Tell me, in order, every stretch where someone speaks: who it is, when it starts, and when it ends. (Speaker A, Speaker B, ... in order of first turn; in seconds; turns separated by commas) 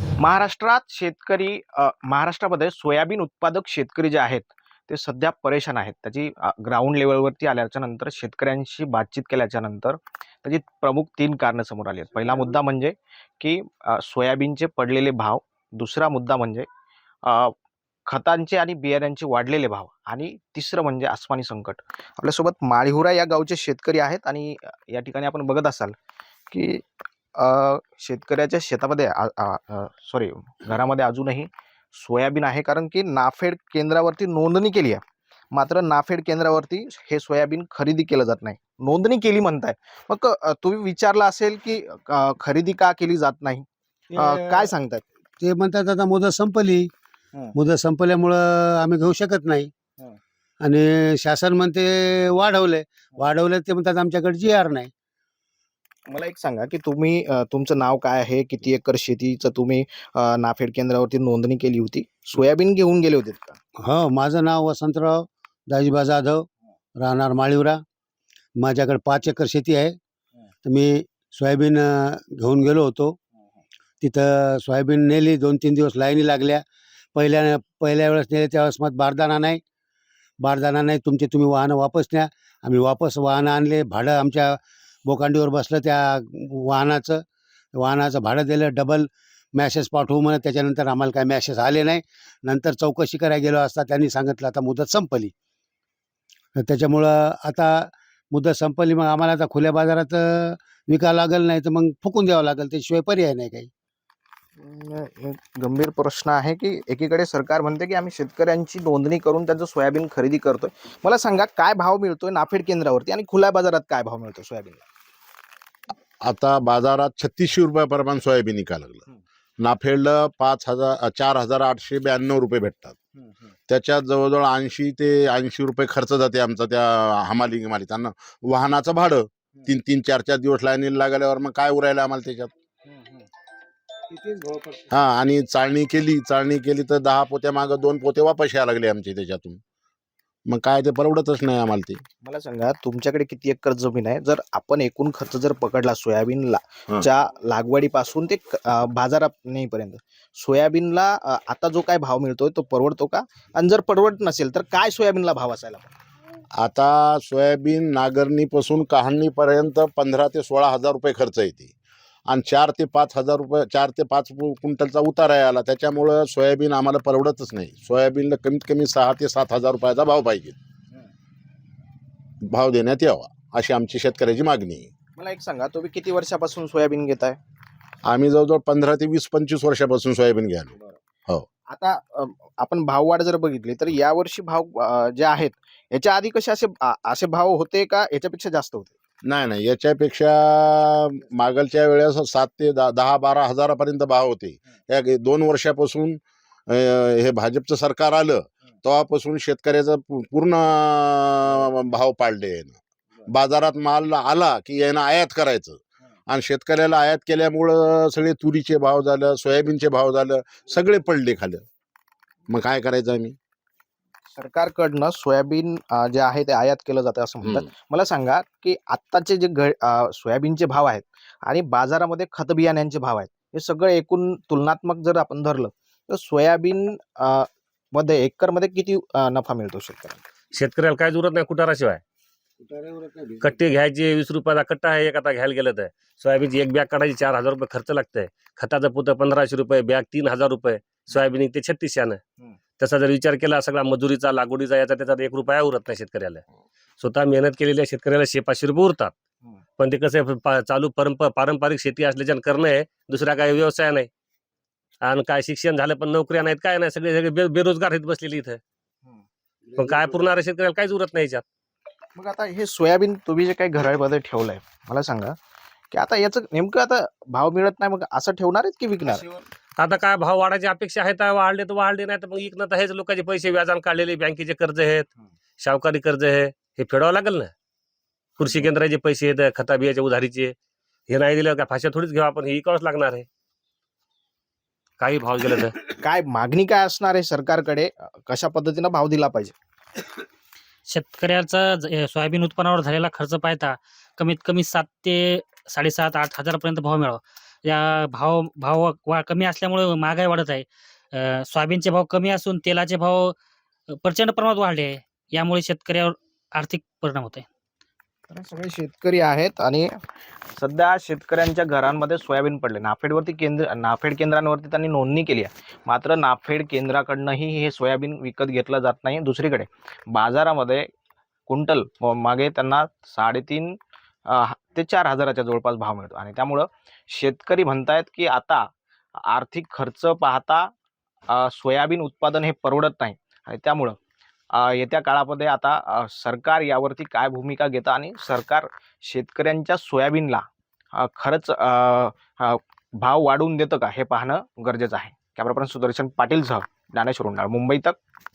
Speaker A: 0.2-16.7, Speaker A: 17.2-17.5, Speaker A: 18.1-25.9, Speaker A: 26.5-35.0, Speaker A: 35.5-45.0, Speaker B: 45.4-46.9, Speaker B: 47.6-49.7, Speaker B: 50.6-54.9, Speaker A: 56.1-63.6, Speaker B: 63.8-66.5, Speaker B: 67.0-67.8, Speaker B: 68.6-70.0, Speaker B: 70.6-73.2, Speaker B: 74.0-76.6, Speaker B: 77.2-79.6, Speaker B: 80.4-95.3, Speaker B: 96.6-103.7, Speaker A: 104.6-114.9, Speaker C: 116.2-119.0, Speaker C: 119.6-123.0, Speaker C: 123.7-132.5, Speaker C: 134.9-139.6, Speaker C: 140.5-142.0, Speaker A: 142.2-155.9, Speaker C: 156.6-161.7, Speaker C: 162.3-170.6, Speaker C: 172.4-174.9, Speaker A: 175.2-177.4, Speaker C: 178.1-180.7, Speaker A: 181.7-188.9, Speaker C: 189.2-211.7, Speaker C: 212.5-213.4, Speaker A: 214.3-230.2, Speaker D: 230.5-232.0, Speaker D: 233.4-242.2, Speaker D: 242.8-246.4, Speaker D: 247.0-249.1, Speaker D: 249.8-254.1, Speaker D: 255.0-258.6, Speaker D: 259.8-261.4, Speaker A: 262.1-265.4, Speaker A: 265.9-269.4, Speaker D: 269.8-277.5, Speaker D: 278.4-280.6, Speaker D: 281.1-283.3, Speaker D: 285.0-285.8, Speaker A: 285.9-289.6, Speaker E: 290.9-303.4, Speaker E: 304.0-307.5, Speaker A: 308.3-309.9, Speaker A: 310.6-320.9, Speaker A: 321.5-330.7, Speaker A: 331.3-334.0, Speaker A: 334.5-348.0